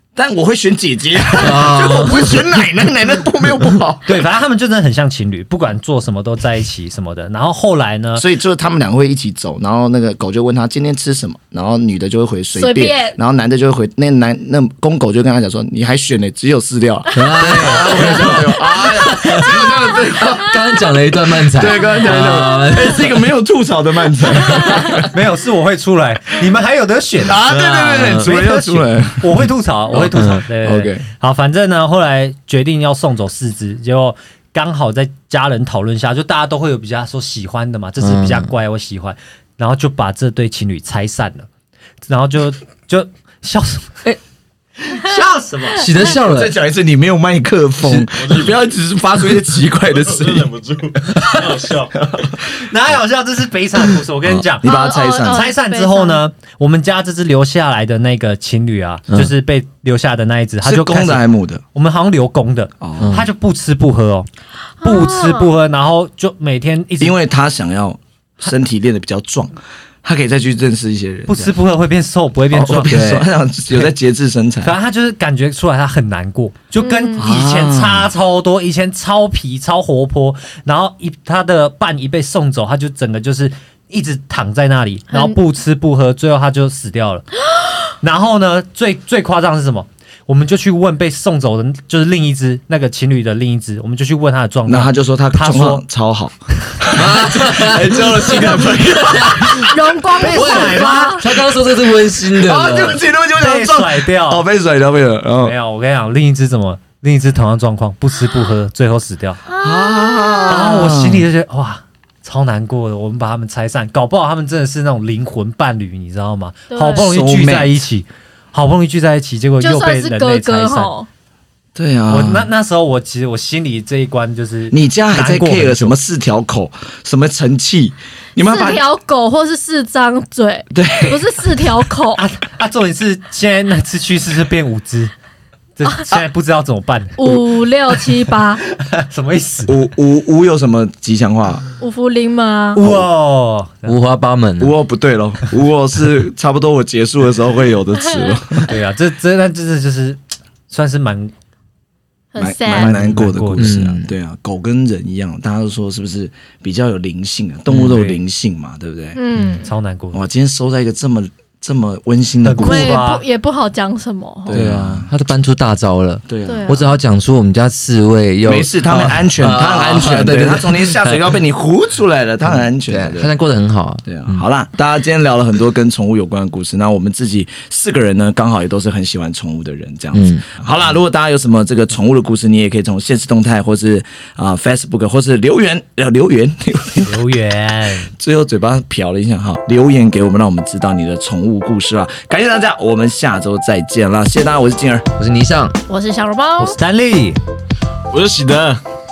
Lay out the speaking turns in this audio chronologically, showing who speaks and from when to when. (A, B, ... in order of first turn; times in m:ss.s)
0:00.1-0:04.2 A
0:01.3-0:02.5 B
0:04.0-0:08.3 C
0:08.2-0:20.6 A
0:12.5-0:13.2 D
0:17.1-0:23.2 B
0:17.4-0:18.0 C
0:17.9-0:19.3 D
0:21.5-0:25.1 A
0:21.9-0:22.6 D
0:24.4-0:25.0 B
0:25.1-0:27.5 C
0:27.2-0:29.4 A
0:27.5-0:28.3 B
0:28.1-0:41.5 C
0:30.0-0:30.4 B
0:30.6-0:31.0 A
0:38.0-0:38.5 B
0:42.1-0:44.1 C
0:44.8-0:45.8 C
0:45.7-0:46.5 B
0:46.2-0:50.5 A
0:48.1-0:48.5 E
0:49.9-0:52.3 E
0:52.0-0:52.3 A
0:52.5-0:54.7 C
0:54.6-0:55.5 A
0:54.6-0:56.2 D
0:55.2-1:04.3 C
1:00.6-1:01.6 A
1:02.8-1:03.2 A
1:03.0-1:03.3 B
1:04.8-1:05.5 D
1:04.8-1:07.2 C
1:07.0-1:11.6 A
1:11.3-1:13.2 C
1:12.5-1:14.7 A
1:14.6-1:27.2 C
1:16.8-1:17.2 D
1:17.2-1:18.1 A
1:28.0-1:35.8 C
1:34.7-1:39.8 A
1:36.9-1:39.6 B
1:39.5-1:41.2 D
1:40.2-1:41.2 C
1:40.2-1:43.0 B
1:42.2-1:45.5 A
1:43.4-1:44.4 C
1:45.4-1:49.4 C
1:49.5-1:50.6 D
1:49.6-1:51.2 A
1:50.5-2:00.9 C
1:56.7-1:57.0 D
1:56.9-1:57.8 A
1:59.6-2:01.1 D
2:01.7-2:02.5 A
2:02.1-2:05.9 C
2:04.7-2:08.8 A
2:08.4-2:12.2 D
2:10.7-2:11.6 A
2:12.2-2:15.1 C
2:15.8-2:17.2 C
2:17.2-2:18.6 D
2:18.8-2:19.7 C
2:19.6-2:21.6 A
2:21.8-2:22.8 D
2:22.7-2:23.9 C
2:23.8-2:24.7 B
2:24.6-2:28.7 A
2:28.7-2:31.3 C
2:32.3-2:33.0 D
2:32.4-2:39.2 A
2:32.6-2:33.8 C
2:33.6-2:34.1 B
2:37.8-2:38.2 C
2:39.2-2:39.7 D
2:39.5-2:40.2 C
2:40.1-2:43.0 A
2:42.4-2:43.2 C
2:42.6-2:44.6 D
2:44.4-2:45.1 A
2:44.5-2:51.2 B
2:46.3-2:46.7 A
2:46.4-2:46.9 D
2:48.4-2:53.3 A
2:52.8-2:54.4 B
2:54.0-3:07.2 A
3:00.1-3:00.4 B
3:07.0-3:08.1 C
3:08.2-3:15.0 A
3:15.2-3:15.8 B
3:15.9-3:16.8 D
3:16.6-3:17.4 C
3:18.1-3:18.8 E